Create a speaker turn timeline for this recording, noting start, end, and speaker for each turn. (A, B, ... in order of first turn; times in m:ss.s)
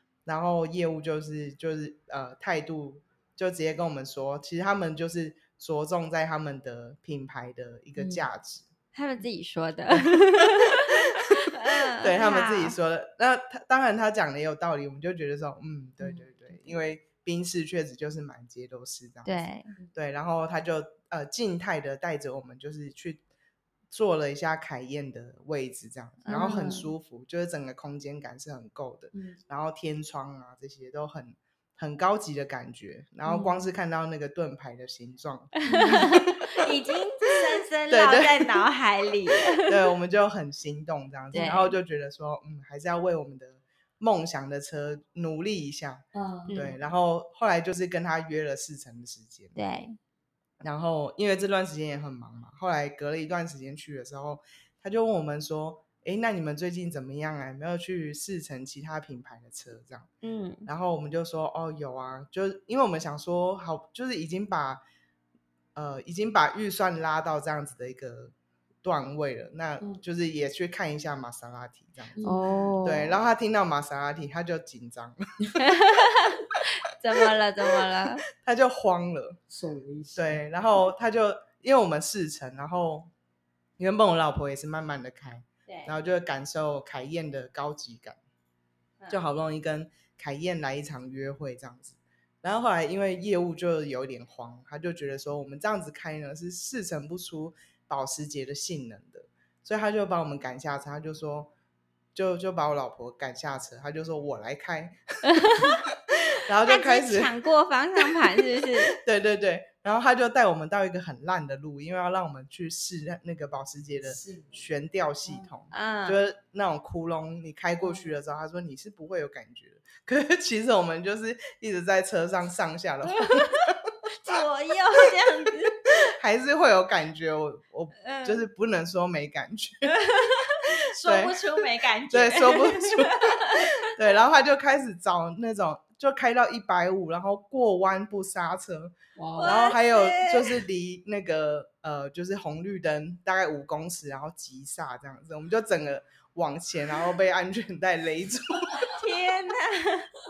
0:00.2-0:08.6 A
0:08.0-0:08.2 B
0:08.9-0:12.8 C
0:09.9-0:11.0 A
0:11.6-0:23.2 A
0:16.0-0:16.3 B
0:19.2-0:19.7 C
0:23.9-0:36.6 A
0:26.2-0:26.9 C
0:29.1-0:29.4 B
0:33.3-0:33.6 B
0:35.6-0:39.7 C
0:35.6-0:36.1 B
0:37.9-0:38.7 A
0:39.5-0:49.6 A
0:41.3-0:41.8 C
0:46.1-0:46.6 B
0:46.5-0:46.8 C
0:49.5-0:50.0 C
0:50.6-1:00.1 A
1:00.2-1:00.7 C
1:00.6-1:04.8 A
1:05.7-1:12.3 A
1:12.1-1:12.8 B
1:12.2-1:13.2 C
1:12.8-1:15.7 A
1:15.6-1:18.2 C
1:18.3-1:19.4 A
1:19.5-1:20.4 B
1:20.1-1:23.1 A
1:23.8-1:28.2 A
1:25.7-1:25.9 C
1:29.1-1:41.5 A
1:42.1-1:47.3 A
1:45.3-1:45.8 C
1:46.6-1:49.0 C
1:48.7-2:03.9 A
1:54.0-1:54.6 B
1:55.7-1:56.2 C
2:04.2-2:05.8 C
2:05.8-2:09.9 A
2:08.0-2:08.4 C
2:09.8-2:13.6 C
2:11.0-2:29.0 A
2:19.1-2:19.7 B
2:19.4-2:20.6 C
2:28.9-2:30.1 C